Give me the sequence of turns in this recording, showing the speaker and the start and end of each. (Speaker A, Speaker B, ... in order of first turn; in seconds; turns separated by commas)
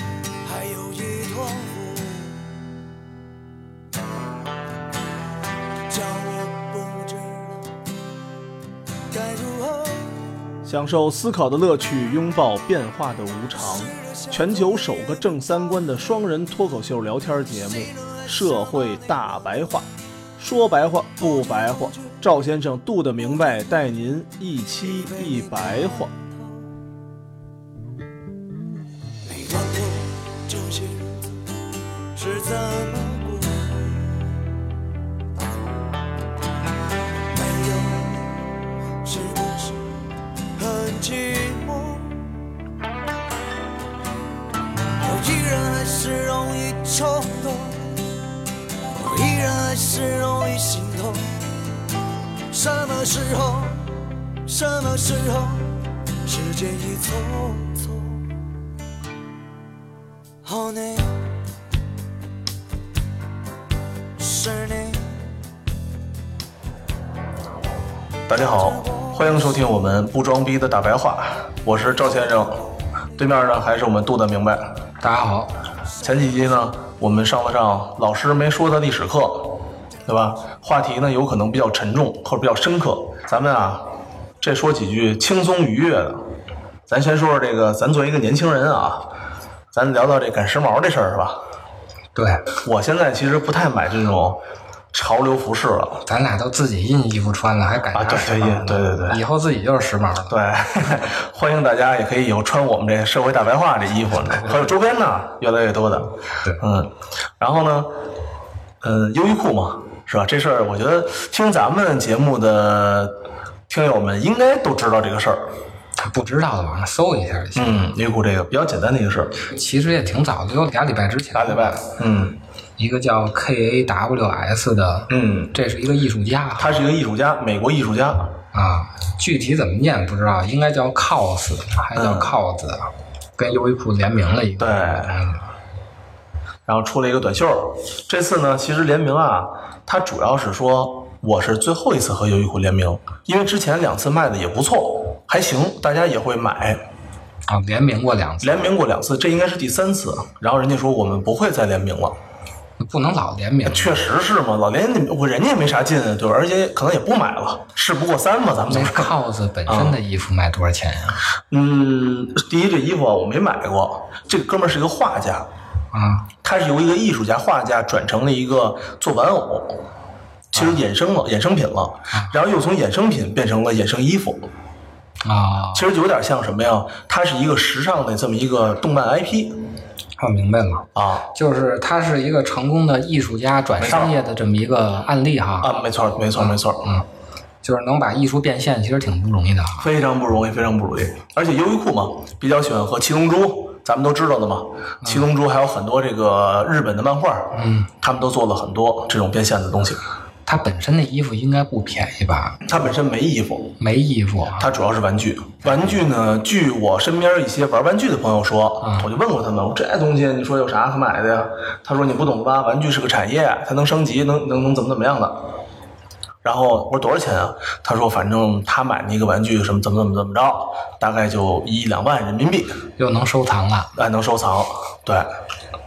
Speaker A: 0.4-2.5, Speaker A: 5.9-7.7, Speaker A: 9.1-10.3, Speaker B: 10.7-26.1, Speaker A: 13.5-15.1, Speaker A: 17.4-19.6, Speaker A: 21.2-22.2, Speaker A: 24.8-26.7, Speaker A: 29.2-31.4, Speaker A: 32.1-34.3, Speaker A: 37.3-39.8, Speaker A: 40.6-42.2, Speaker A: 45.0-48.0, Speaker A: 48.9-51.3, Speaker A: 52.5-58.3, Speaker A: 60.4-61.2, Speaker A: 64.2-65.4, Speaker B: 68.3-72.6, Speaker A: 68.3-69.5, Speaker B: 73.2-74.8, Speaker C: 75.0-75.5, Speaker B: 76.0-83.9, Speaker B: 84.4-86.2, Speaker B: 86.9-89.1, Speaker B: 89.7-91.4, Speaker C: 92.2-92.5, Speaker B: 92.6-94.4, Speaker B: 94.9-96.1, Speaker C: 96.1-100.4, Speaker B: 97.9-99.2, Speaker B: 100.3-107.9, Speaker C: 104.3-104.7, Speaker B: 108.8-115.5, Speaker C: 116.0-117.9, Speaker B: 117.5-119.4, Speaker C: 119.5-121.8, Speaker B: 121.3-122.4, Speaker C: 122.8-126.8, Speaker B: 125.1-125.6, Speaker B: 126.6-128.4, Speaker C: 128.5-135.5, Speaker B: 131.9-132.3, Speaker B: 134.6-135.2, Speaker B: 136.7-146.8, Speaker C: 147.5-148.7, Speaker B: 148.4-152.2, Speaker C: 152.8-154.1, Speaker B: 153.7-159.1, Speaker C: 158.7-161.2, Speaker B: 159.7-160.0, Speaker B: 161.5-165.5, Speaker C: 165.9-166.3, Speaker B: 166.4-169.8, Speaker B: 170.5-174.5, Speaker C: 170.6-170.8, Speaker C: 175.2-175.9, Speaker B: 175.7-179.6, Speaker C: 180.2-185.7, Speaker B: 180.9-181.3, Speaker B: 183.8-184.1, Speaker B: 185.6-186.9, Speaker C: 186.4-187.1, Speaker C: 187.6-189.9, Speaker B: 189.8-200.0, Speaker C: 197.5-197.9, Speaker C: 200.5-202.6, Speaker B: 202.7-203.8, Speaker C: 203.8-204.7, Speaker B: 204.6-215.6, Speaker C: 208.8-209.1, Speaker B: 216.4-222.8, Speaker C: 223.0-223.9, Speaker B: 223.9-225.3